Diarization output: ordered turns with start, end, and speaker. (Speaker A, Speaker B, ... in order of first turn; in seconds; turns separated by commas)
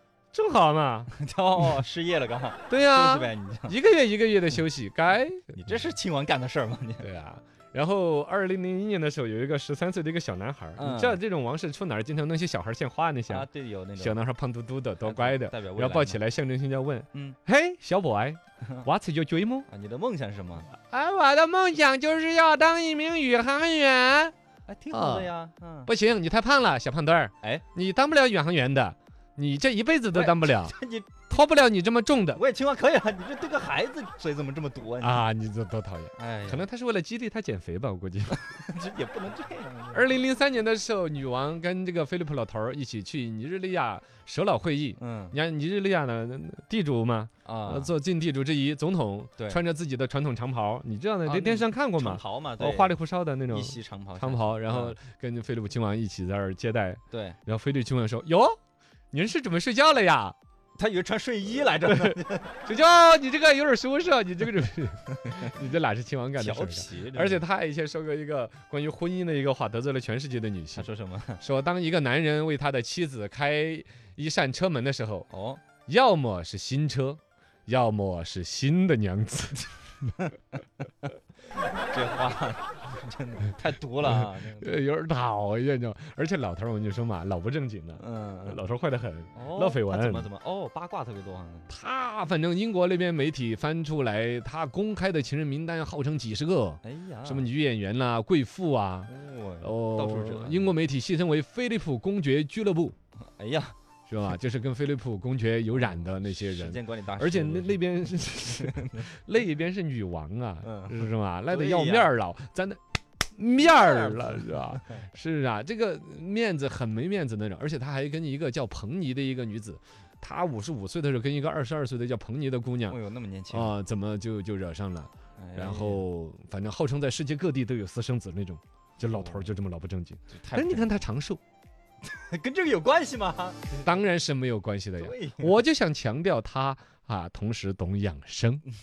Speaker A: 0.3-1.8, Speaker B: 1.1-3.8, Speaker A: 2.7-5.6, Speaker B: 5.5-7.1, Speaker A: 7.0-13.5, Speaker B: 10.8-11.2, Speaker B: 13.3-14.2, Speaker A: 14.0-19.7, Speaker B: 15.0-16.2, Speaker B: 17.1-17.4, Speaker B: 18.6-18.9, Speaker B: 19.7-20.7, Speaker A: 20.7-24.3, Speaker B: 24.7-25.9, Speaker A: 24.9-25.3, Speaker A: 25.9-30.7, Speaker B: 30.1-31.3, Speaker A: 31.3-32.4, Speaker B: 32.4-35.2, Speaker A: 35.0-38.4, Speaker B: 36.2-36.7, Speaker B: 38.4-40.2, Speaker A: 39.9-58.6, Speaker B: 45.0-45.4, Speaker B: 47.5-47.9, Speaker B: 51.2-53.0, Speaker B: 53.5-55.0, Speaker B: 57.1-57.4, Speaker A: 59.1-60.4, Speaker B: 60.8-62.6, Speaker A: 61.8-70.9, Speaker B: 66.4-67.5, Speaker B: 70.8-71.4, Speaker A: 71.4-75.3, Speaker B: 75.3-75.6, Speaker A: 75.9-79.7, Speaker B: 81.8-84.8, Speaker A: 84.0-90.3, Speaker B: 88.0-88.6, Speaker B: 89.3-91.7, Speaker A: 91.7-99.1, Speaker B: 96.8-97.5, Speaker B: 99.1-100.7, Speaker A: 99.6-103.0, Speaker B: 103.2-103.8, Speaker A: 104.1-112.8, Speaker B: 105.8-109.1, Speaker B: 110.6-112.1, Speaker A: 113.4-123.0, Speaker B: 113.6-115.0, Speaker B: 122.9-123.7, Speaker A: 123.5-131.4, Speaker B: 125.4-126.1, Speaker B: 129.0-129.6, Speaker B: 130.3-131.0, Speaker B: 132.0-134.0, Speaker A: 133.8-138.7, Speaker B: 135.0-135.6